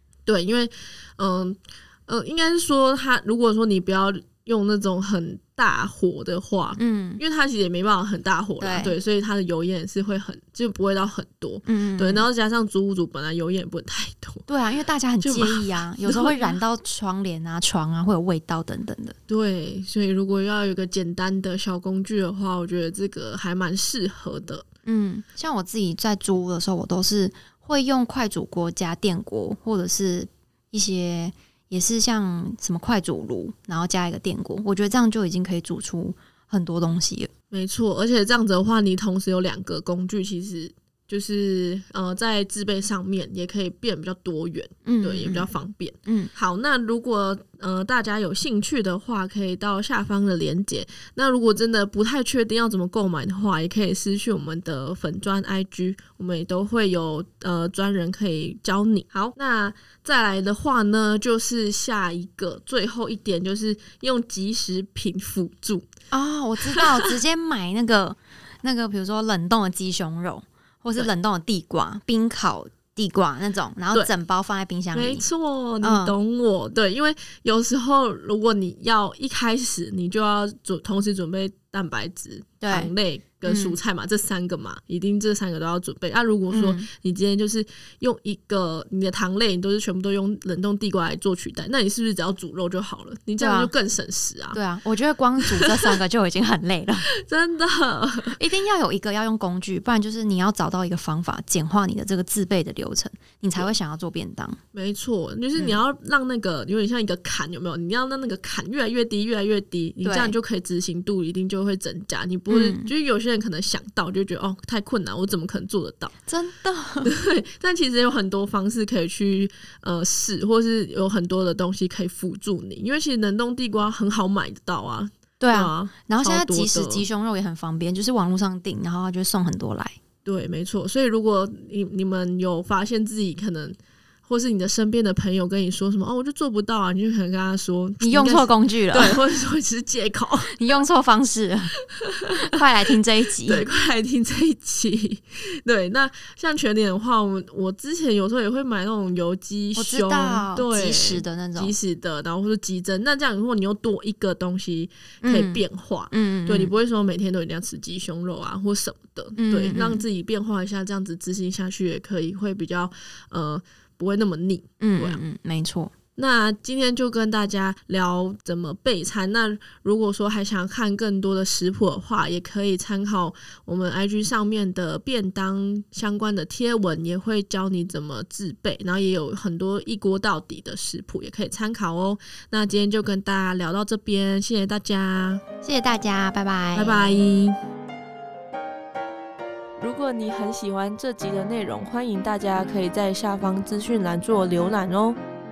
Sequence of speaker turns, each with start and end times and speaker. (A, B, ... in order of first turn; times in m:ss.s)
0:00.2-0:14.4 A
0:06.8-0:07.2 B
0:08.6-0:09.0 B
0:11.6-0:12.3 B
0:14.5-0:19.2 B
0:15.2-0:16.6 A
0:19.3-0:24.6 A
0:24.8-0:37.3 B
0:37.5-1:05.9 A
0:44.8-0:45.5 B
0:46.0-0:46.3 B
1:06.1-1:15.2 B
1:14.9-1:34.6 A
1:15.8-1:16.1 B
1:22.6-1:22.9 B
1:23.4-1:23.8 B
1:26.5-1:26.9 B
1:33.4-1:33.7 B
1:34.5-1:37.1 B
1:35.5-1:36.0 A
1:37.1-1:38.4 A
1:38.4-1:44.6 B
1:44.7-1:56.1 A
1:50.0-1:50.4 B
1:52.5-1:52.9 B
1:56.2-1:57.1 B
1:57.0-2:07.0 A
2:05.4-2:10.0 B
2:10.2-2:20.6 A
2:18.0-2:19.2 B
2:20.5-2:21.7 B
2:22.0-2:22.5 A
2:22.4-2:23.7 B
2:23.4-2:45.2 A
2:29.8-2:31.7 B
2:35.2-2:36.7 B
2:39.4-2:40.0 B
2:44.8-2:45.9 B
2:46.2-3:05.4 A
3:05.6-3:07.2 B
3:06.7-3:07.6 A
3:09.8-3:15.2 C